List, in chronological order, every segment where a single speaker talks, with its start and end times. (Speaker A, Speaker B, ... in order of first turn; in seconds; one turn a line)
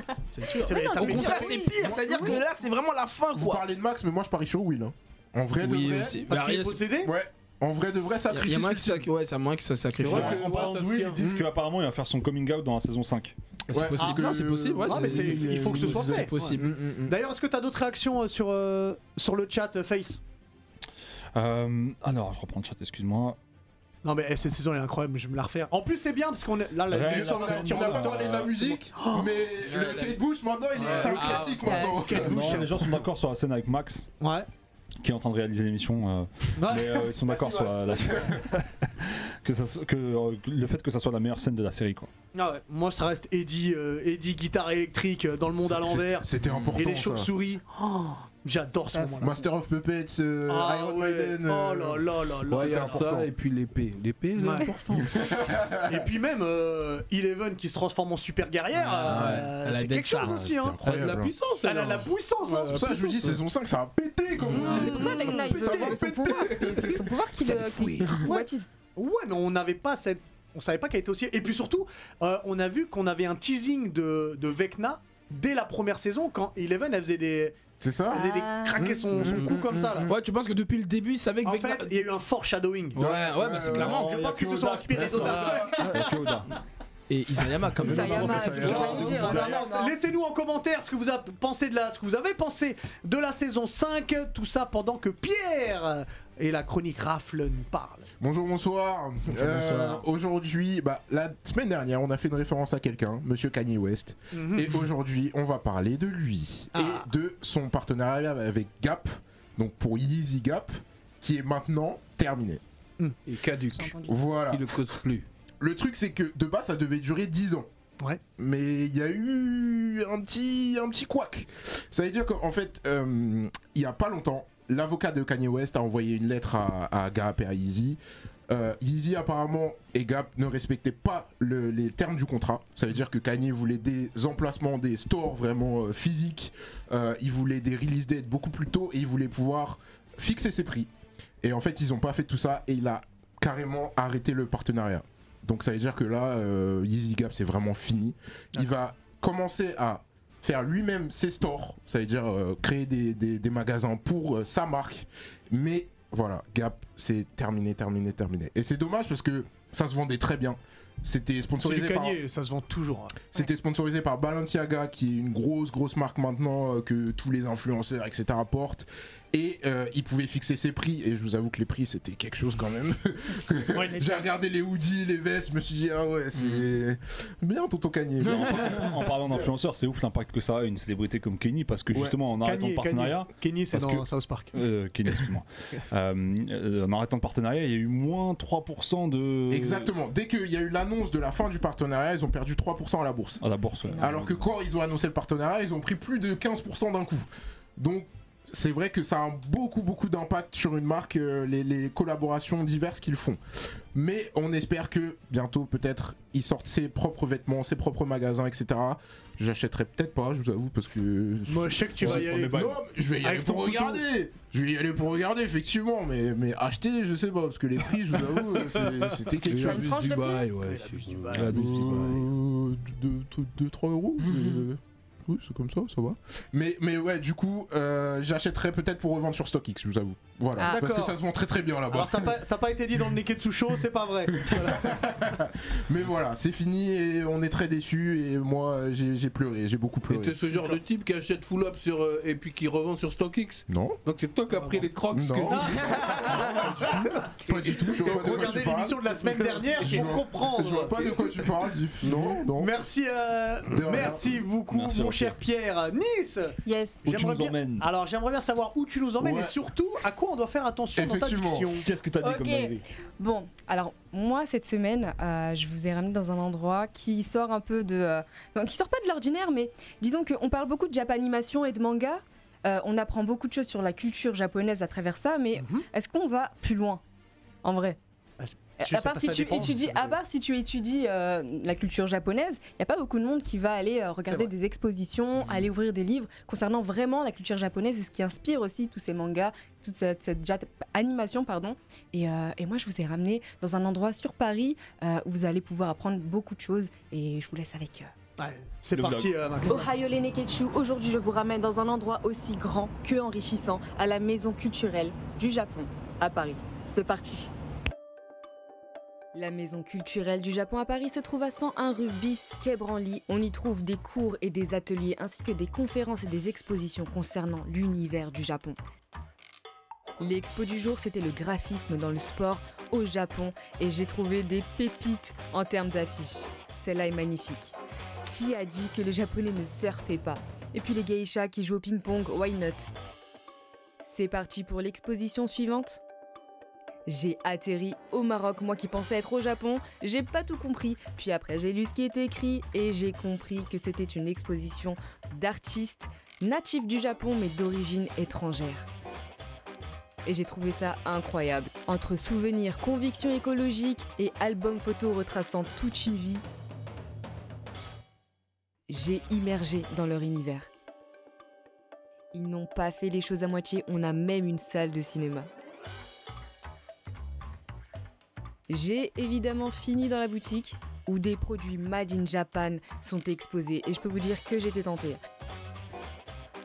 Speaker A: 0.3-3.7
Speaker B: 0.5-1.7
Speaker C: 0.6-2.4
Speaker D: 1.0-2.4
Speaker D: 3.4-6.2
Speaker A: 5.6-6.8
Speaker C: 6.3-7.1
Speaker D: 7.0-9.1
Speaker A: 8.3-10.4
Speaker E: 10.0-11.3
Speaker F: 10.1-13.3
Speaker D: 10.1-10.5
Speaker D: 11.2-11.5
Speaker A: 13.7-16.7
Speaker D: 13.7-17.2
Speaker C: 14.0-14.3
Speaker C: 14.8-20.2
Speaker F: 21.3-23.4
Speaker C: 24.0-29.2
Speaker F: 26.9-28.6
Speaker D: 27.1-32.7
Speaker A: 29.6-30.2
Speaker A: 30.8-31.9
Speaker C: 30.8-33.0
Speaker F: 32.0-34.1
Speaker C: 34.2-34.5
Speaker F: 35.0-42.1
Speaker C: 36.6-38.0
Speaker C: 42.4-49.4
Speaker D: 45.6-47.3
Speaker D: 48.9-53.3
Speaker C: 50.5-53.2
Speaker E: 52.5-55.4
Speaker C: 54.4-54.7
Speaker D: 55.1-56.0
Speaker C: 55.7-60.8
Speaker A: 58.8-60.4
Speaker D: 59.1-59.5
Speaker D: 60.2-61.3
Speaker E: 60.8-62.7
Speaker C: 61.6-63.4
Speaker D: 62.6-66.9
Speaker E: 64.5-68.2
Speaker B: 64.5-68.7
Speaker C: 64.5-65.8
Speaker C: 68.2-77.6
Speaker D: 77.8-80.2
Speaker C: 78.1-80.1
Speaker B: 78.1-78.9
Speaker E: 79.2-79.5
Speaker A: 80.1-82.0
Speaker C: 81.4-83.0
Speaker A: 83.0-84.2
Speaker D: 83.0-84.1
Speaker F: 83.7-86.5
Speaker C: 84.0-86.1
Speaker D: 85.0-85.9
Speaker A: 85.0-86.1
Speaker A: 87.1-88.8
Speaker D: 87.8-89.5
Speaker B: 87.8-90.0
Speaker F: 87.9-89.7
Speaker C: 88.5-98.1
Speaker D: 98.2-112.6
Speaker A: 99.3-100.0
Speaker C: 104.3-104.8
Speaker C: 106.7-107.1
Speaker E: 113.3-115.3
Speaker B: 113.8-114.2
Speaker D: 114.0-114.7
Speaker D: 115.6-117.7
Speaker D: 118.4-140.9
Speaker D: 141.4-162.2
Speaker C: 161.6-163.2
Speaker D: 163.3-179.0
Speaker C: 173.7-174.2
Speaker F: 178.3-189.9
Speaker D: 181.9-182.2
Speaker C: 182.4-184.6
Speaker D: 189.5-193.4
Speaker F: 193.4-194.4
Speaker D: 194.0-197.3
Speaker D: 197.8-203.4
Speaker D: 203.9-219.9
Speaker C: 211.5-214.0
Speaker F: 212.0-212.8
Speaker E: 219.5-222.3
Speaker B: 219.5-220.5
Speaker C: 220.6-221.6
Speaker D: 221.3-232.4
Speaker F: 221.4-221.8
Speaker C: 230.6-231.2
Speaker C: 231.9-235.2
Speaker D: 234.3-240.4
Speaker E: 240.1-246.3
Speaker D: 243.7-244.0
Speaker D: 245.1-252.7
Speaker C: 245.5-251.0
Speaker E: 252.0-252.4
Speaker C: 252.6-261.9
Speaker D: 253.7-254.2
Speaker F: 254.7-255.4
Speaker B: 256.6-257.0
Speaker F: 257.1-257.9
Speaker D: 259.2-259.6
Speaker D: 260.9-261.7
Speaker F: 261.8-262.9
Speaker B: 262.2-277.0
Speaker C: 275.6-275.9
Speaker B: 277.6-278.0
Speaker C: 278.4-280.1
Speaker B: 278.8-298.1
Speaker C: 298.4-299.9
Speaker F: 298.9-299.4
Speaker B: 299.6-307.5
Speaker B: 309.3-318.8
Speaker B: 320.2-332.9
Speaker B: 334.0-336.0
Speaker B: 337.1-348.9
Speaker B: 350.2-356.4
Speaker B: 358.9-360.7
Speaker B: 362.3-365.5
Speaker B: 368.7-375.2